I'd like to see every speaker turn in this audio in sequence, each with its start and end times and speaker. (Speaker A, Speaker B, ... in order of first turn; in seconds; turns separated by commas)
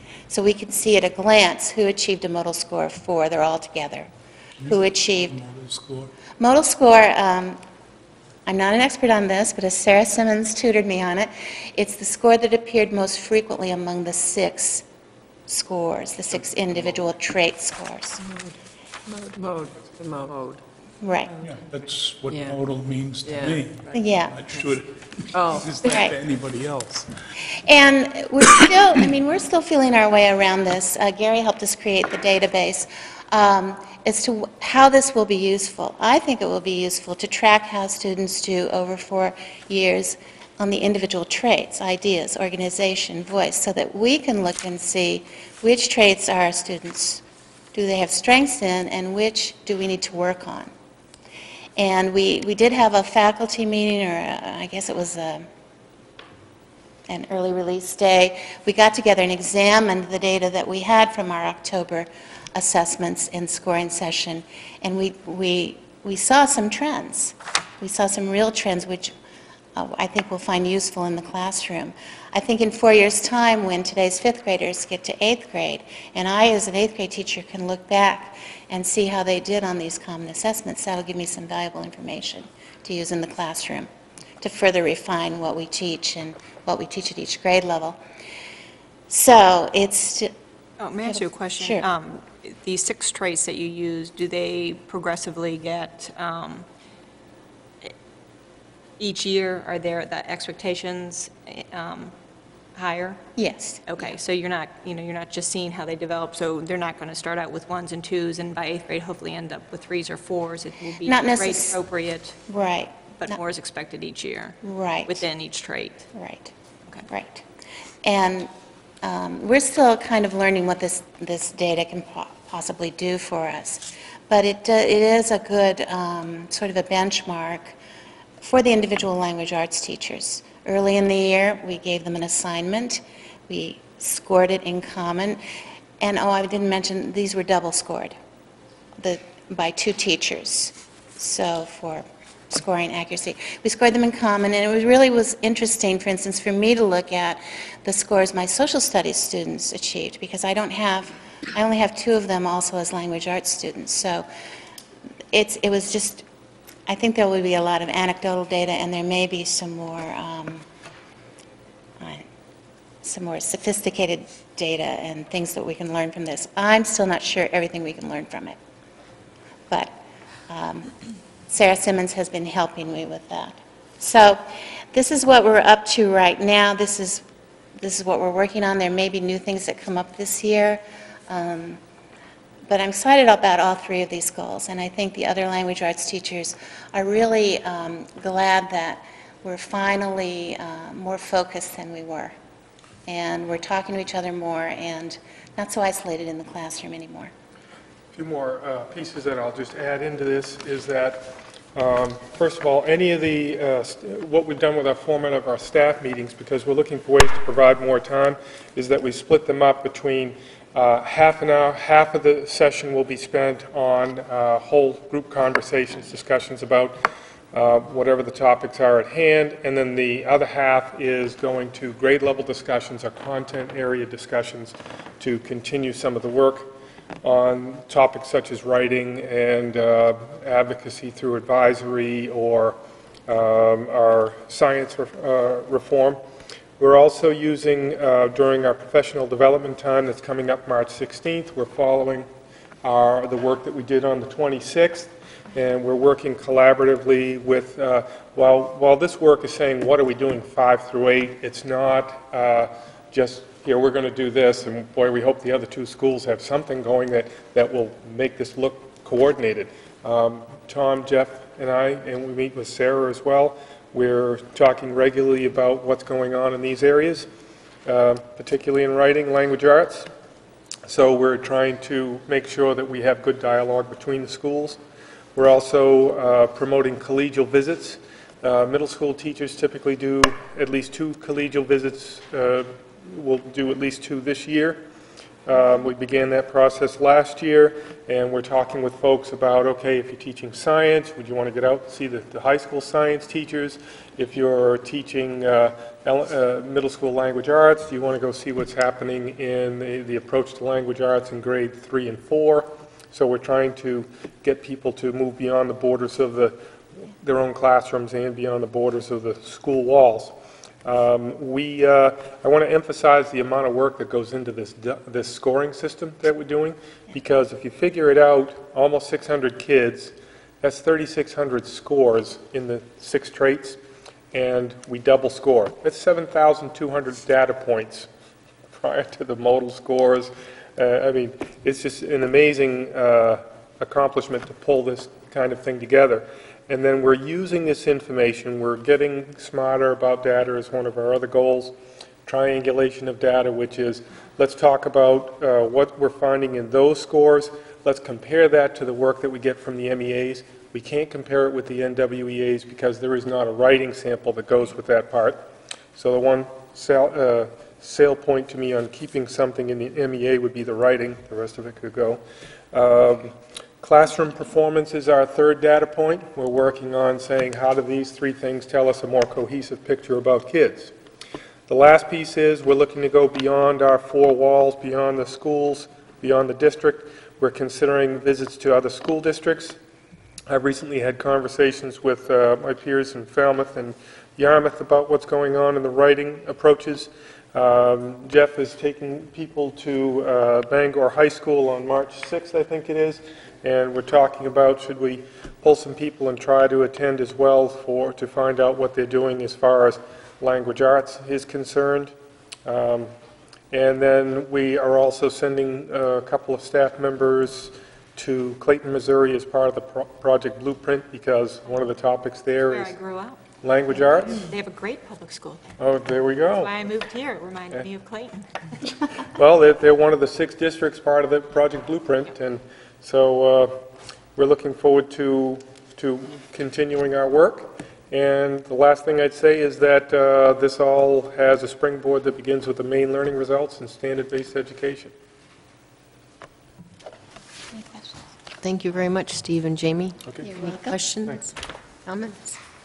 Speaker A: 0.3-4.1, Speaker B: 4.6-6.1, Speaker A: 4.7-5.3, Speaker A: 6.4-7.6, Speaker A: 8.5-14.8, Speaker A: 15.5-18.2, Speaker C: 18.2-18.5, Speaker C: 19.1-20.6, Speaker A: 21.0-21.3, Speaker B: 21.4-27.1, Speaker C: 22.3-22.6, Speaker C: 23.2-23.9, Speaker A: 23.9-24.3, Speaker C: 25.3-25.9, Speaker A: 25.9-26.1, Speaker A: 27.7-47.2, Speaker A: 47.7-50.7, Speaker A: 51.8-55.5, Speaker A: 57.1-69.1, Speaker A: 69.8-83.9, Speaker A: 84.4-88.0, Speaker A: 89.1-90.3, Speaker D: 90.8-96.7, Speaker A: 91.0-91.8, Speaker D: 99.0-102.2, Speaker D: 102.8-103.2, Speaker A: 103.4-103.8, Speaker D: 103.9-112.4, Speaker A: 111.0-111.8, Speaker A: 112.5-113.4, Speaker D: 113.2-116.1, Speaker A: 114.6-115.2, Speaker A: 116.1-116.5, Speaker A: 117.1-117.5, Speaker A: 118.0-118.5, Speaker A: 119.0-127.8, Speaker A: 128.4-135.4, Speaker A: 136.0-138.2, Speaker A: 139.0-154.3, Speaker A: 155.3-156.2, Speaker A: 156.9-160.6, Speaker A: 162.0-162.3, Speaker A: 163.0-168.6, Speaker A: 170.5-170.9, Speaker A: 171.5-174.4, Speaker A: 174.9-177.2, Speaker A: 177.8-181.8, Speaker A: 182.7-192.3, Speaker A: 193.1-197.3, Speaker E: 198.2-217.0, Speaker E: 217.5-226.7, Speaker E: 227.2-232.8, Speaker E: 233.3-236.2, Speaker E: 236.8-242.3, Speaker E: 242.8-267.3, Speaker E: 267.9-270.1, Speaker E: 270.9-274.8, Speaker E: 275.4-284.8, Speaker E: 285.5-310.3, Speaker E: 310.9-323.8, Speaker E: 324.3-328.1, Speaker E: 328.7-341.8, Speaker E: 342.3-370.9, Speaker E: 371.7-379.8, Speaker E: 380.5-402.1, Speaker E: 402.7-403.1, Speaker E: 403.7-412.9, Speaker D: 412.6-415.6, Speaker E: 413.6-414.5, Speaker E: 415.8-416.7, Speaker D: 416.6-419.1, Speaker E: 419.4-423.8, Speaker E: 424.4-435.1, Speaker A: 437.8-438.1, Speaker F: 438.6-441.5, Speaker A: 440.4-441.0, Speaker F: 442.1-442.6